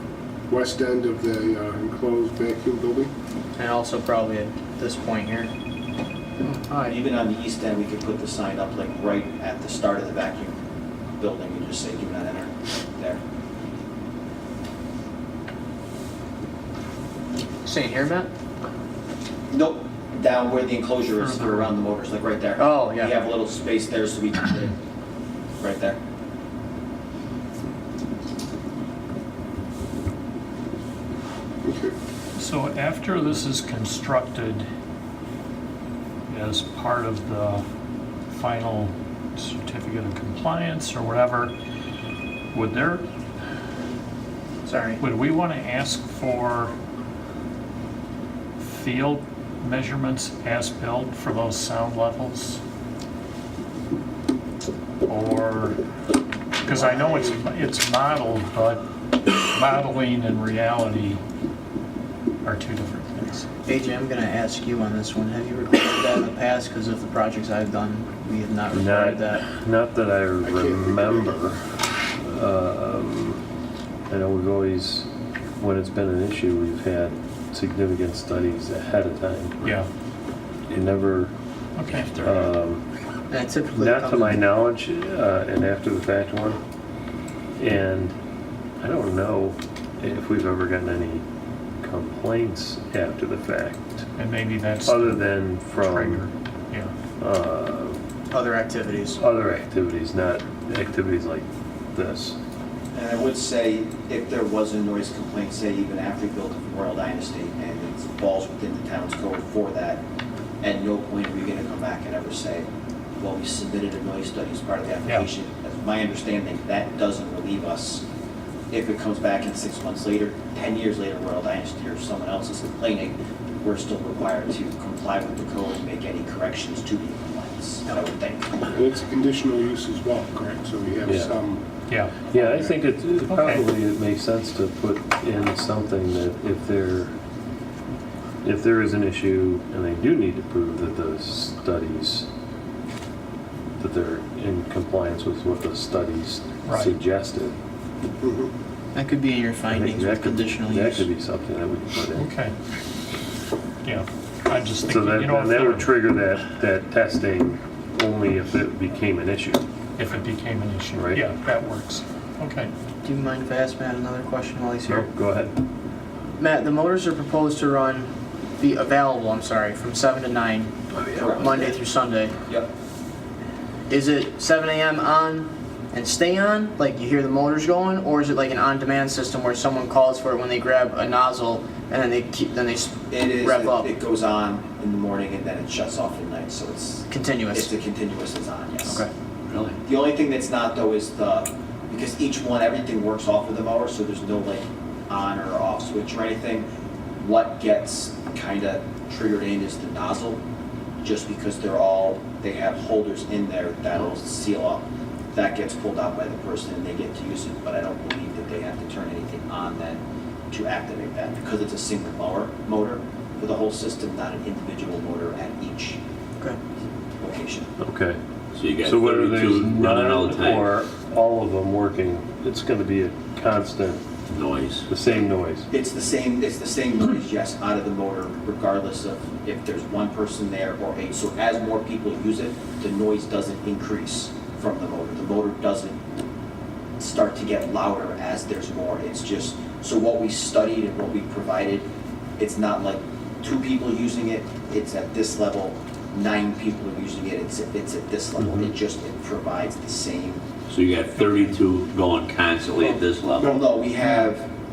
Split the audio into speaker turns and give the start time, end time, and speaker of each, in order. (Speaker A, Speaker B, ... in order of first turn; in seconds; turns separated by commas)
Speaker A: 0.5-3.1, Speaker B: 3.6-5.5, Speaker B: 6.4-7.0, Speaker C: 6.8-10.5, Speaker C: 11.2-13.2, Speaker B: 17.6-18.3, Speaker C: 19.5-24.8, Speaker D: 21.1-21.7, Speaker B: 22.6-23.1, Speaker C: 25.6-26.0, Speaker A: 31.6-31.9, Speaker D: 32.4-34.7, Speaker D: 36.3-37.6, Speaker D: 38.3-41.5, Speaker D: 42.5-43.0, Speaker B: 44.6-45.0, Speaker D: 45.0-46.7, Speaker D: 48.6-52.6, Speaker D: 55.0-55.8, Speaker D: 56.6-58.8, Speaker B: 56.7-57.3, Speaker D: 59.4-61.2, Speaker D: 62.4-63.5, Speaker B: 63.6-69.4, Speaker E: 68.7-73.4, Speaker A: 70.4-71.4, Speaker E: 74.1-75.1, Speaker E: 75.6-79.5, Speaker E: 80.7-81.3, Speaker D: 81.8-82.1, Speaker E: 82.1-82.8, Speaker B: 83.3-84.4, Speaker E: 83.7-86.6, Speaker E: 87.6-88.1, Speaker E: 88.8-91.2, Speaker E: 91.8-94.0, Speaker D: 94.2-96.9, Speaker E: 94.8-96.3, Speaker E: 97.2-98.0, Speaker B: 98.3-99.2, Speaker E: 99.2-102.4, Speaker C: 102.9-110.0, Speaker C: 110.6-112.7, Speaker C: 113.2-118.0, Speaker C: 118.7-128.7, Speaker A: 128.7-131.6, Speaker E: 131.1-131.3, Speaker D: 131.9-132.3, Speaker E: 132.3-137.1, Speaker A: 132.3-132.8, Speaker D: 133.3-133.6, Speaker E: 138.4-142.3, Speaker E: 143.8-147.6, Speaker D: 146.7-146.9, Speaker A: 148.2-148.5, Speaker B: 148.9-151.1, Speaker E: 149.7-152.3, Speaker D: 152.2-152.5, Speaker D: 153.8-155.9, Speaker E: 154.8-159.6, Speaker D: 160.0-162.7, Speaker E: 160.9-161.2, Speaker B: 163.0-165.1, Speaker E: 164.9-165.6, Speaker B: 166.4-172.3, Speaker C: 171.2-171.7, Speaker B: 173.9-183.9, Speaker C: 183.1-189.0, Speaker B: 187.1-187.7, Speaker B: 188.8-189.1, Speaker F: 189.5-189.8, Speaker C: 189.8-196.7, Speaker C: 197.2-200.4, Speaker C: 201.0-216.0, Speaker C: 217.2-217.7, Speaker E: 217.8-218.2, Speaker F: 218.5-220.7, Speaker E: 218.8-224.0, Speaker F: 224.3-224.8, Speaker E: 224.9-225.7, Speaker C: 225.7-235.9, Speaker C: 237.0-250.4, Speaker E: 248.4-248.7, Speaker F: 250.7-253.6, Speaker C: 253.4-254.5, Speaker A: 253.4-253.7